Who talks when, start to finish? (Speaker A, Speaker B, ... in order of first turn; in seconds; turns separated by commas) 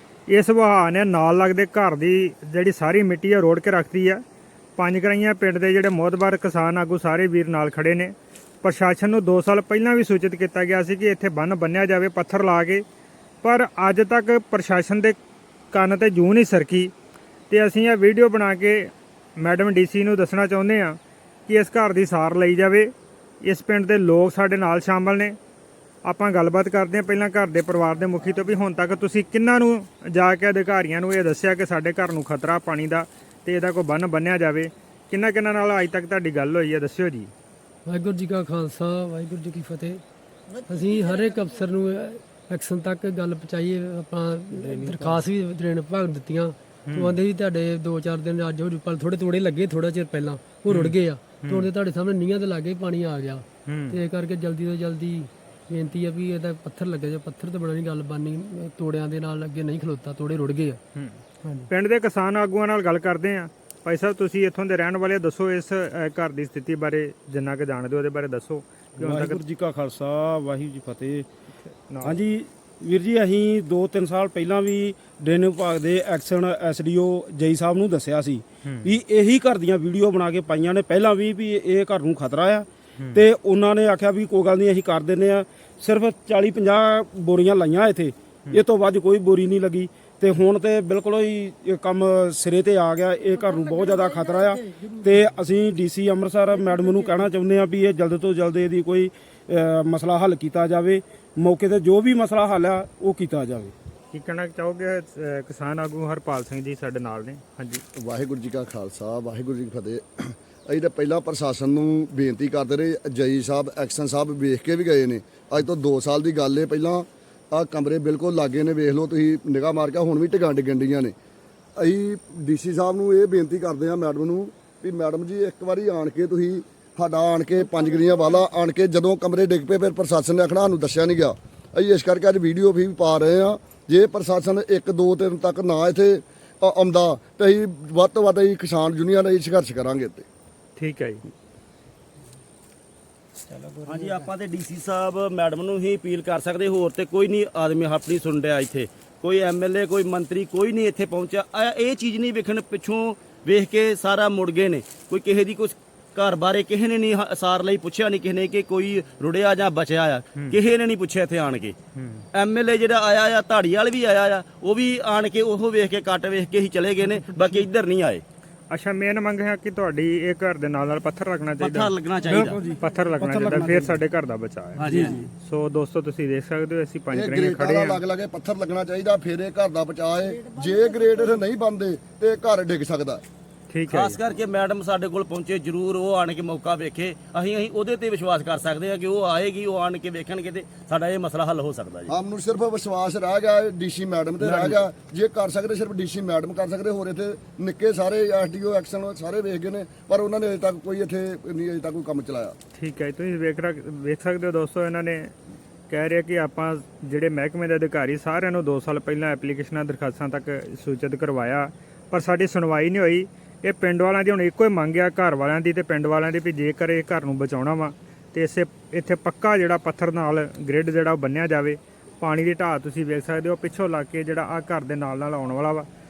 Speaker A: 0.3-4.2, Speaker A: 4.8-12.8, Speaker A: 13.4-15.2, Speaker A: 15.7-16.9, Speaker A: 17.5-22.9, Speaker A: 23.4-25.4, Speaker A: 26.0-37.3, Speaker B: 37.9-40.0, Speaker B: 40.7-60.8, Speaker C: 44.8-45.1, Speaker A: 46.9-47.2, Speaker A: 50.7-51.7, Speaker A: 53.6-54.0, Speaker A: 60.9-69.4, Speaker C: 69.0-71.2, Speaker A: 71.9-72.2, Speaker C: 72.0-103.7, Speaker A: 78.6-78.9, Speaker A: 104.1-107.8, Speaker D: 107.9-121.1, Speaker D: 121.8-140.2, Speaker A: 140.8-141.2, Speaker E: 143.8-161.8, Speaker A: 161.9-162.2, Speaker E: 162.3-168.2, Speaker A: 168.7-178.0, Speaker E: 171.6-172.6, Speaker C: 172.3-174.0, Speaker E: 174.8-175.2, Speaker C: 174.8-175.3, Speaker D: 177.1-183.2, Speaker A: 183.7-184.2, Speaker E: 183.9-192.1, Speaker D: 192.1-202.6, Speaker E: 194.4-194.8, Speaker A: 202.8-205.3, Speaker A: 205.9-225.9